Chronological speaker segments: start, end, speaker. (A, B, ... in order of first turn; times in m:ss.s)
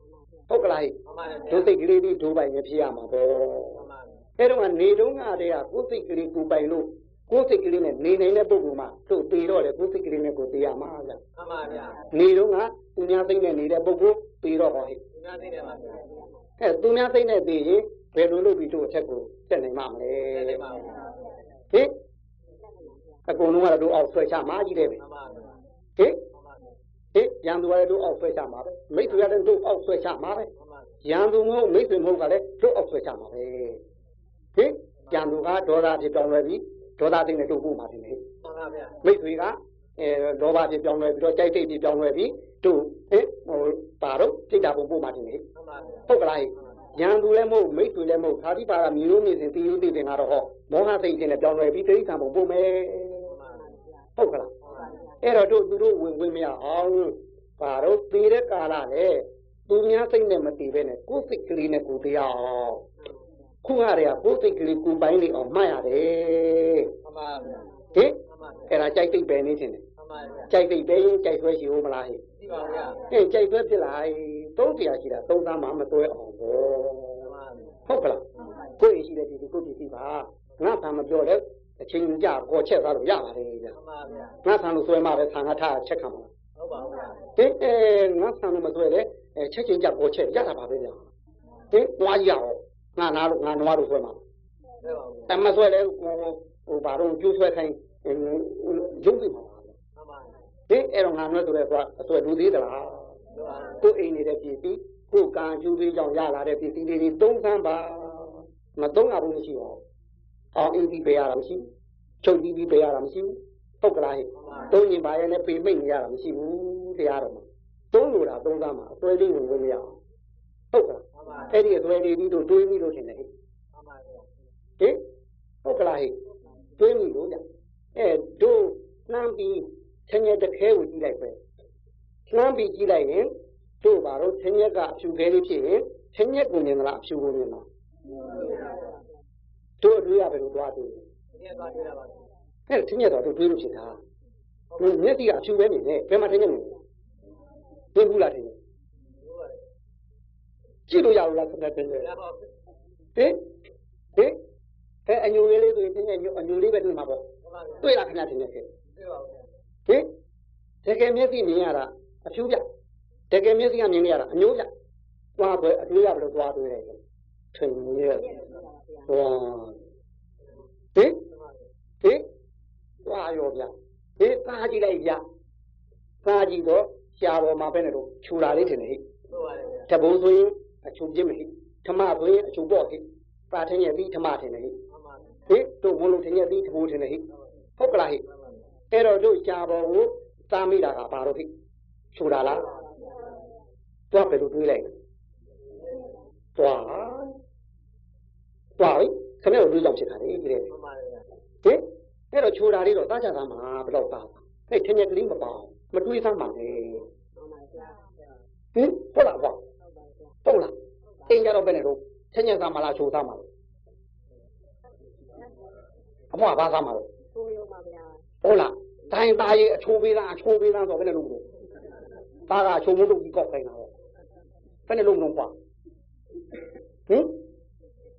0:00.5-0:01.0 A
0:01.0-0:01.7 B
0:01.5-0:03.8 A
0:03.7-0:04.2 B
0:04.4-0:11.2 A
0:11.4-0:12.1 B
0:12.1-0:15.0 A
0:15.2-0:16.0 B
0:16.6-0:20.6 A
0:20.3-0:21.2 B
0:22.6-0:23.3 C
0:23.3-0:25.0 A
0:25.0-0:25.6 B
0:26.0-0:26.2 A
0:26.3-0:26.7 B
0:27.1-0:30.5 A
0:30.6-0:31.0 B
0:31.0-0:33.8 A
0:34.6-0:38.2 A
0:38.4-0:39.0 B
0:39.0-0:45.4 A
0:45.6-0:46.1 B
0:46.1-0:53.4 A
0:53.3-0:53.7 B
0:53.6-0:54.0 C
0:54.2-0:54.5 A
0:54.6-0:55.0 B
0:54.8-0:55.2 C
0:55.2-1:02.8 A
1:03.6-1:06.9 A
1:07.0-1:07.7 B
1:07.9-1:09.8 A
1:08.3-1:08.8 B
1:10.0-1:10.5 B
1:10.5-1:12.2 A
1:12.4-1:13.1 B
1:13.1-1:17.3 A
1:17.2-1:17.8 B
1:17.9-1:18.2 A
1:18.8-1:23.8 A
1:23.7-1:24.4 B
1:24.4-1:26.3 A
1:26.6-1:27.3 B
1:27.4-1:31.0 A
1:31.7-1:34.2 A
1:34.8-1:35.3 B
1:35.3-1:39.7 A
1:40.0-1:40.3 B
1:40.7-1:43.2 A
1:43.3-1:43.8 B
1:43.8-1:49.8 A
1:50.5-1:51.7 A
1:52.2-2:00.0 A
1:54.3-1:54.8 B
2:00.7-2:03.3 A
2:01.2-2:01.6 B
2:03.7-2:04.3 B
2:05.6-2:06.2 A
2:06.8-2:07.4 A
2:08.0-2:11.4 A
2:12.3-2:17.7 A
2:19.8-2:21.0 A
2:21.3-2:22.2 B
2:22.7-2:24.0 A
2:24.7-2:25.0 B
2:24.8-2:26.8 A
2:28.0-2:28.6 A
2:29.2-2:29.6 B
2:30.9-2:32.1 A
2:32.0-2:32.5 B
2:33.2-2:33.4 A
2:35.1-2:37.3 A
2:37.4-2:37.9 B
2:37.8-2:38.7 A
2:39.0-2:39.5 B
2:40.8-2:42.6 A
2:43.3-2:44.7 A
2:45.4-2:47.0 A
2:47.5-2:48.4 A
2:48.1-2:49.1 C
2:49.1-2:49.8 A
2:51.0-2:51.2 A
2:51.3-2:51.6 B
2:53.0-2:55.2 A
2:56.2-2:59.0 A
2:59.3-2:59.9 B
2:59.9-3:04.8 A
3:04.9-3:05.4 B
3:05.5-3:07.2 A
3:07.8-3:08.2 A
3:08.2-3:08.6 B
3:08.9-3:11.5 A
3:12.1-3:12.7 A
3:14.1-3:15.0 A
3:16.6-3:17.4 A
3:18.8-3:20.7 A
3:20.7-3:21.2 B
3:21.6-3:27.1 A
3:27.4-3:28.1 C
3:28.8-3:29.6 A
3:29.8-3:30.4 C
3:30.4-3:30.7 A
3:31.1-3:31.4 C
3:31.3-3:33.5 A
3:36.3-3:37.1 A
3:37.3-3:38.2 C
3:38.4-3:41.5 A
3:42.5-3:43.9 A
3:44.9-3:45.5 A
3:47.1-3:47.4 A